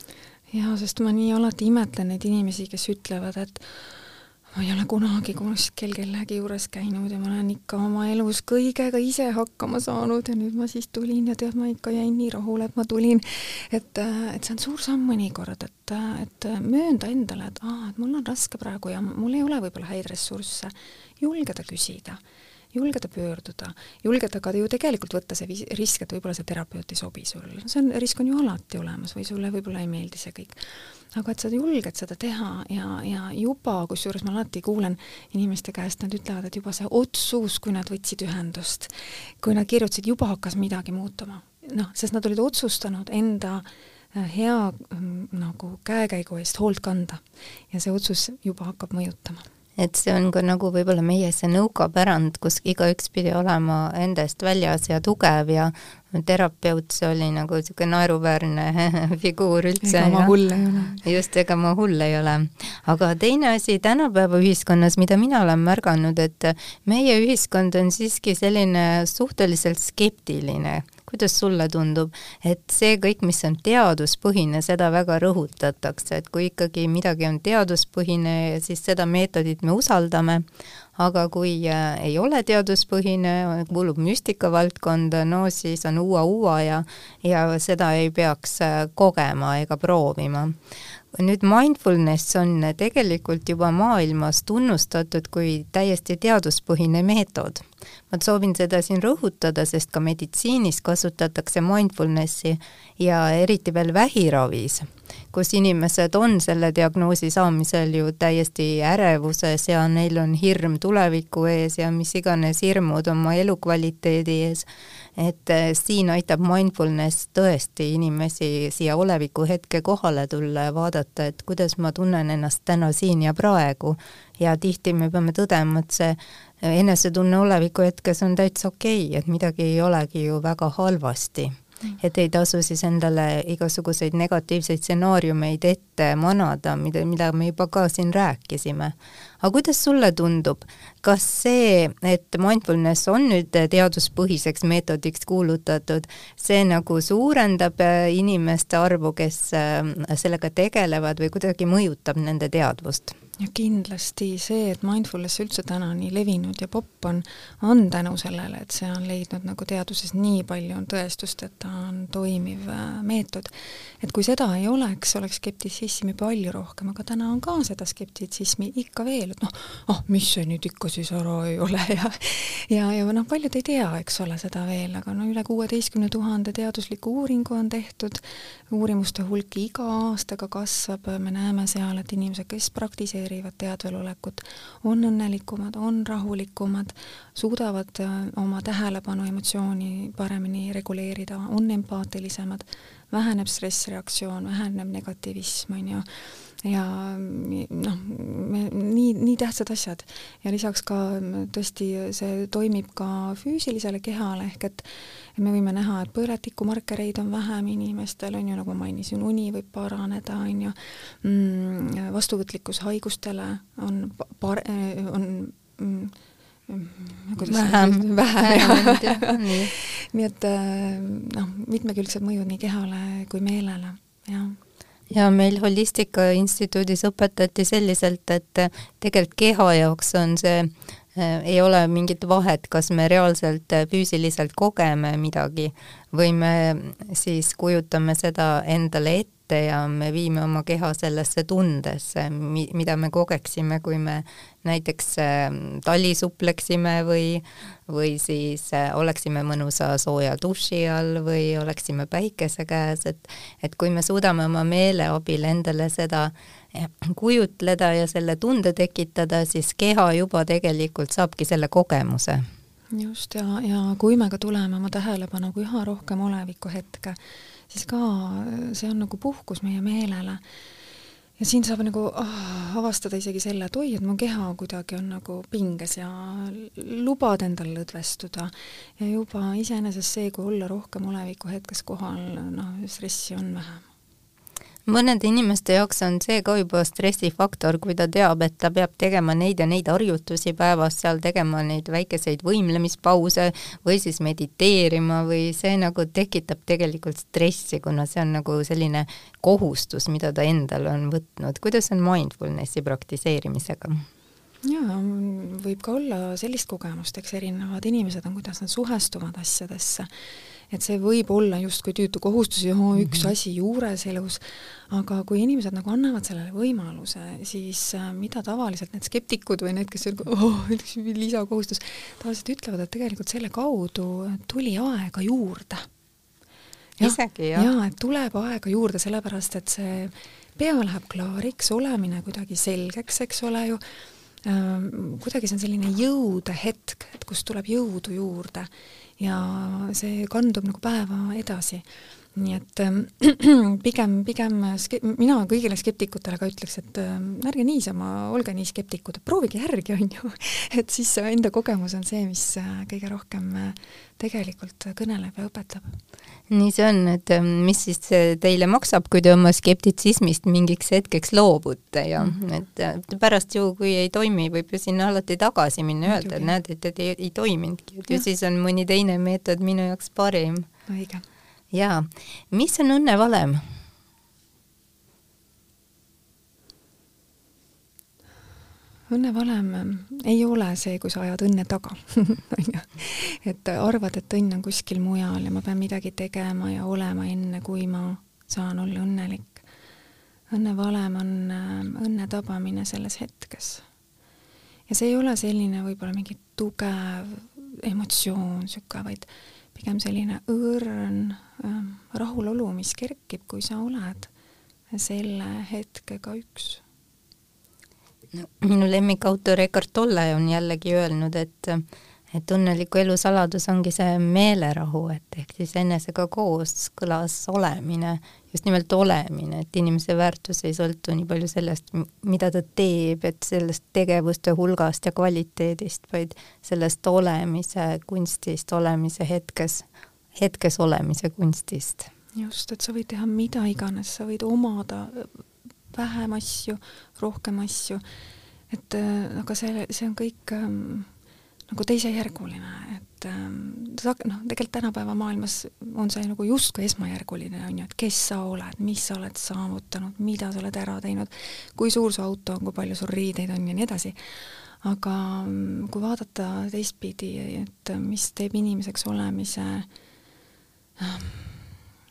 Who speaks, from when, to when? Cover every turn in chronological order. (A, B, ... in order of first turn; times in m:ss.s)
0:00.5-0:03.8 A
0:04.5-0:22.2 A
0:22.7-0:49.4 A
0:49.8-1:00.4 B
0:59.8-1:01.0 A
1:01.0-1:20.4 B
1:21.0-1:30.6 B
1:31.1-2:33.1 B
2:33.4-3:16.0 A
3:16.6-3:36.1 A
3:36.7-3:44.6 A
3:37.4-3:39.7 B
3:45.1-4:22.4 B
4:22.9-4:27.2 A
4:27.7-4:30.4 A
4:31.4-4:43.8 A
4:44.9-5:04.0 B
5:04.6-5:10.1 A
5:10.7-5:25.9 A
5:27.0-5:33.8 A
5:27.0-5:27.7 B
5:34.4-5:56.0 A
5:56.5-6:10.7 B
6:06.0-6:06.5 A
6:10.9-6:11.2 A
6:11.7-6:13.6 B
6:19.1-6:29.6 A
6:30.5-6:33.8 A
6:34.9-6:44.3 A
6:44.9-6:46.8 A
6:48.3-7:09.8 B
7:10.4-7:12.1 B
7:12.4-7:18.0 A
7:18.7-7:21.1 A
7:21.7-7:34.2 A
7:34.8-7:39.9 A
7:41.0-7:41.6 A